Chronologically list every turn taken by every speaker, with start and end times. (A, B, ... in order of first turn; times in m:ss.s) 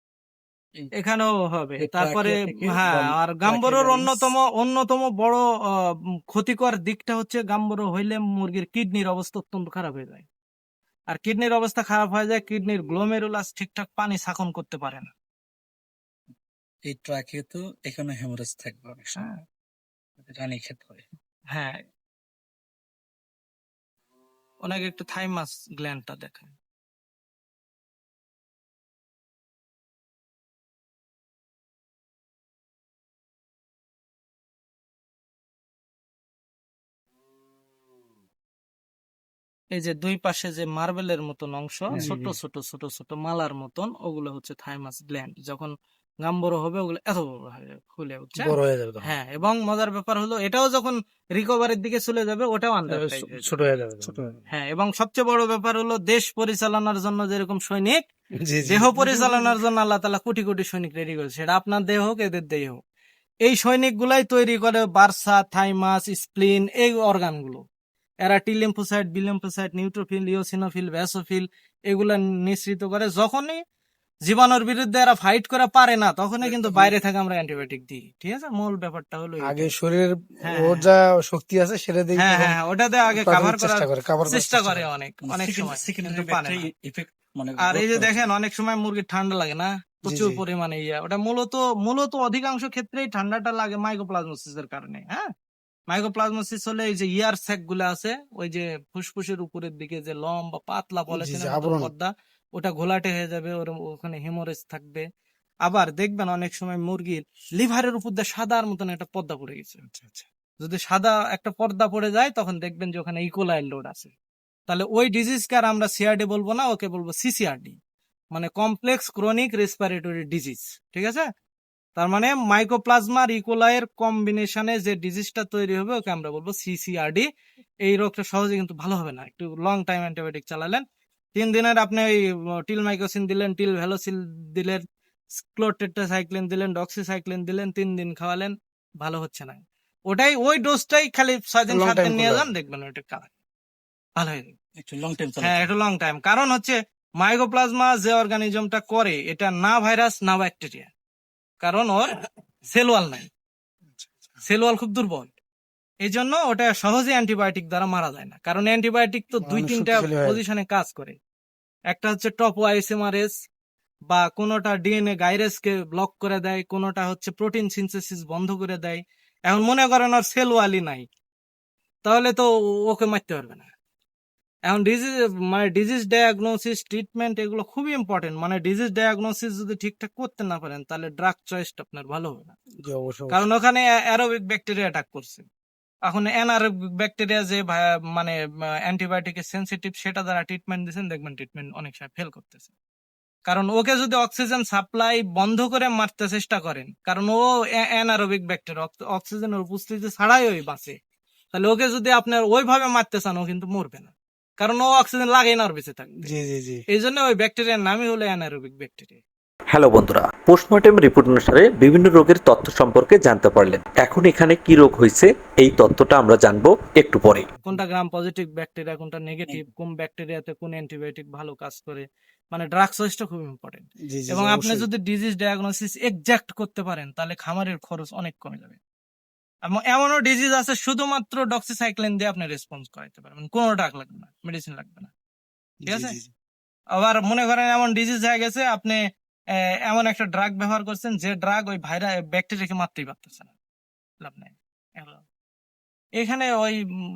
0:01.0-0:10.2 A
0:01.8-0:04.3 B
0:11.1-0:15.1 A
0:16.8-0:19.4 B
0:20.2-0:21.0 B
0:21.5-0:21.8 A
0:24.6-0:26.5 A
0:39.7-0:53.6 A
0:41.9-0:42.4 C
0:48.4-0:49.1 C
0:52.9-0:54.4 C
0:54.5-0:58.0 A
0:58.4-0:59.4 C
0:58.6-1:02.8 A
1:03.4-1:07.6 A
1:08.2-1:13.6 A
1:14.2-1:19.7 A
1:19.4-1:22.6 C
1:20.4-1:20.9 A
1:22.1-1:26.6 A
1:23.1-1:24.9 C
1:25.2-1:28.3 B
1:27.6-1:35.3 A
1:30.0-1:30.4 C
1:35.9-1:45.0 A
1:41.1-1:41.9 C
1:45.6-1:49.8 A
1:49.8-1:50.2 C
1:50.6-1:54.1 A
1:54.7-1:57.8 A
1:58.3-2:01.3 A
2:02.0-2:07.2 A
2:07.8-2:14.8 A
2:15.4-2:23.3 A
2:21.7-2:22.5 C
2:24.2-2:24.5 A
2:24.8-2:25.7 B
2:25.4-2:30.9 A
2:31.6-2:32.1 A
2:32.6-2:33.3 A
2:34.0-2:34.2 C
2:34.4-2:35.3 A
2:36.0-2:41.2 A
2:39.4-2:40.4 C
2:41.9-2:43.3 A
2:44.1-2:51.0 A
2:52.0-2:53.7 A
2:54.6-3:02.5 A
3:02.8-3:03.5 C
3:03.3-3:05.4 A
3:06.0-3:12.7 A
3:13.4-3:21.0 A
3:21.5-3:26.3 A
3:26.2-3:26.8 C
3:26.9-3:29.2 A
3:29.7-3:37.5 D
3:37.6-3:48.8 A
3:44.1-3:44.9 C
3:49.6-3:55.1 A
3:55.8-3:56.3 C
3:55.8-3:56.2 A
3:56.9-3:59.0 A
3:59.8-4:03.5 A
4:04.2-4:05.2 A
4:06.2-4:06.8 A